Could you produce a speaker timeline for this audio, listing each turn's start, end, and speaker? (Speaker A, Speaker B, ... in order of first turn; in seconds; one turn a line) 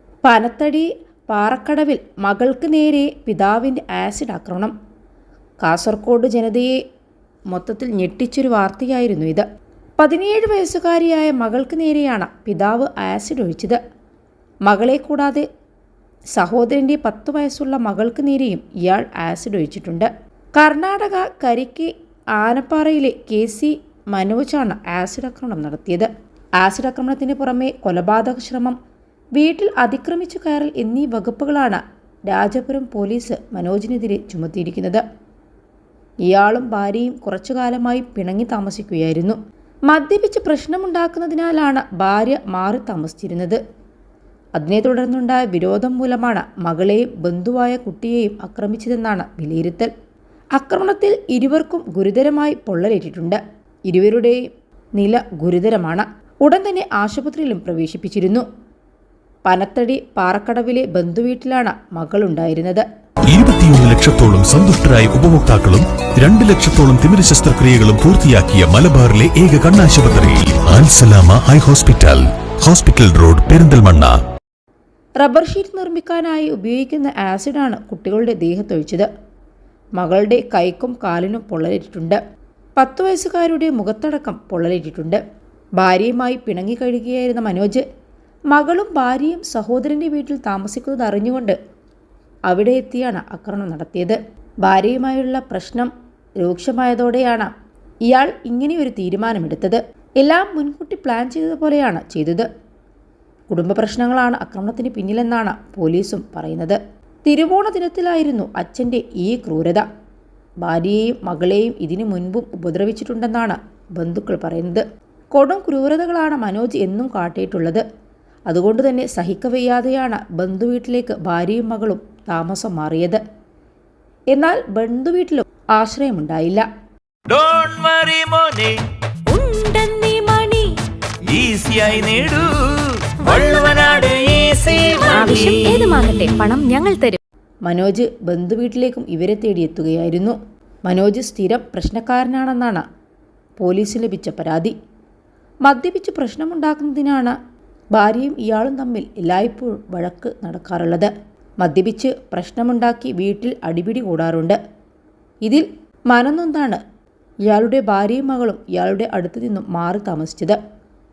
Speaker A: 0.2-4.7
Speaker A: 5.6-6.8
Speaker A: 7.5-9.5
Speaker A: 10.0-13.8
Speaker A: 14.7-15.5
Speaker A: 16.4-28.8
Speaker A: 29.4-35.0
Speaker A: 36.3-39.4
Speaker A: 39.9-43.6
Speaker A: 44.6-49.9
Speaker A: 50.6-54.4
Speaker A: 55.0-58.5
Speaker A: 59.5-62.9
Speaker B: 63.3-74.2
Speaker A: 75.2-79.1
Speaker A: 80.0-82.2
Speaker A: 82.8-85.2
Speaker A: 85.8-87.8
Speaker A: 88.5-91.6
Speaker A: 92.5-97.5
Speaker A: 98.1-102.5
Speaker A: 103.5-109.9
Speaker A: 110.6-117.8
Speaker A: 118.5-123.2
Speaker A: 124.3-126.7
Speaker C: 127.3-128.8
Speaker D: 129.3-130.8
Speaker C: 131.2-136.1
Speaker D: 133.3-133.8
Speaker D: 134.9-137.2
Speaker A: 137.7-142.8
Speaker A: 143.6-144.8
Speaker A: 145.7-147.4
Speaker A: 147.9-154.6
Speaker A: 155.4-156.8
Speaker A: 157.5-160.6